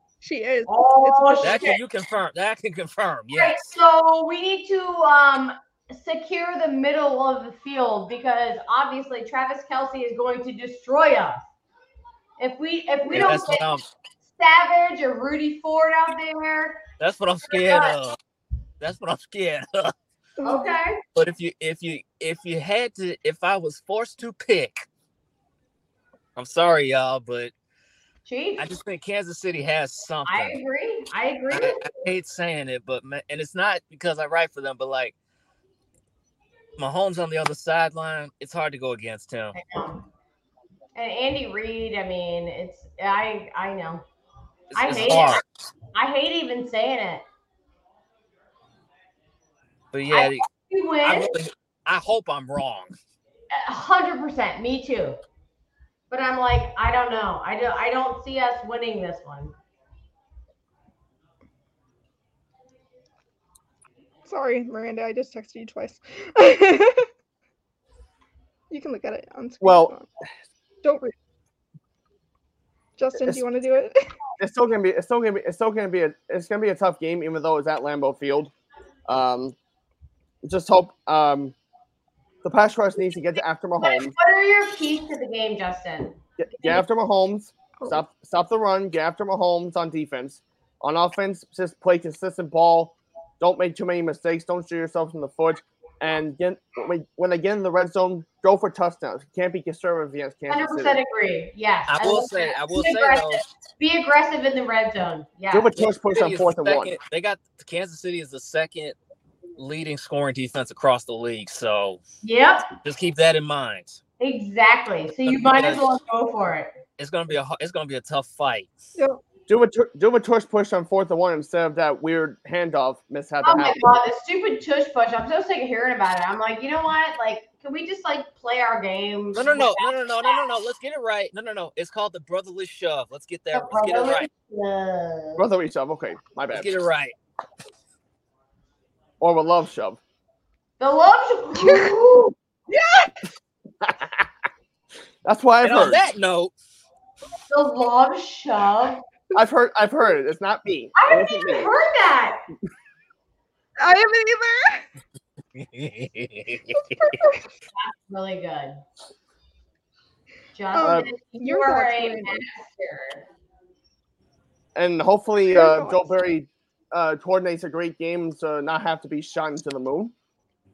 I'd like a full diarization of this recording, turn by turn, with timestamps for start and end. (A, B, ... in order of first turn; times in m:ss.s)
0:00.2-0:01.7 A
0:00.7-0:01.8 B
0:01.4-0:03.7 C
0:03.3-0:11.4 B
0:12.4-0:13.7 B
0:13.1-0:13.9 C
0:14.3-0:16.8 B
0:17.0-0:18.2 C
0:17.5-0:17.9 B
0:18.8-0:19.9 C
0:20.4-0:20.6 A
0:20.4-0:21.0 B
0:21.1-0:24.9 C
0:26.4-0:27.5 C
0:28.2-0:28.7 B
0:28.6-0:30.6 C
0:30.2-0:31.9 B
0:31.5-0:35.1 C
0:36.8-0:39.6 C
0:39.5-0:40.0 B
0:40.9-0:44.0 B
0:44.7-0:45.4 C
0:44.7-0:45.4 B
0:45.9-0:47.2 B
0:49.9-0:50.5 C
0:50.1-0:51.3 B
0:51.0-0:52.9 C
0:53.5-0:55.2 B
0:56.1-0:59.5 B
1:04.2-1:07.1 A
1:08.7-1:10.1 A
1:09.6-1:09.9 D
1:10.8-1:11.1 A
1:13.0-1:14.1 A
1:14.4-1:18.5 D
1:19.1-1:19.6 D
1:20.4-1:21.6 D
1:22.4-1:24.1 D
1:23.8-1:26.8 B
1:26.4-1:41.0 D
1:40.5-1:45.9 B
1:41.9-1:43.4 C
1:45.5-1:46.9 D
1:45.8-1:49.0 C
1:49.6-1:52.0 C
1:52.2-1:52.7 B
1:52.8-1:54.0 C
1:54.2-1:56.7 B
1:55.3-1:55.9 C
1:57.0-1:58.7 C
1:59.0-1:59.2 A
1:59.5-2:03.9 D
2:03.4-2:10.5 B
2:09.4-2:14.3 C
2:13.5-2:15.4 B
2:15.4-2:16.7 D
2:16.5-2:17.1 C
2:19.2-2:20.0 D
2:20.8-2:22.3 B
2:21.6-2:21.9 A
2:22.7-2:23.1 A
2:23.8-2:24.3 D
2:25.2-2:26.0 D
2:25.6-2:26.5 C
2:27.5-2:29.0 B
2:29.3-2:31.7 D
2:30.9-2:32.4 B
2:33.8-2:34.9 A
2:35.5-2:36.8 C
2:36.7-2:37.5 A
2:37.7-2:38.8 B
2:40.5-2:43.2 B
2:40.7-2:42.5 A
2:40.8-2:41.1 D
2:44.7-2:50.1 D
2:45.5-2:46.2 A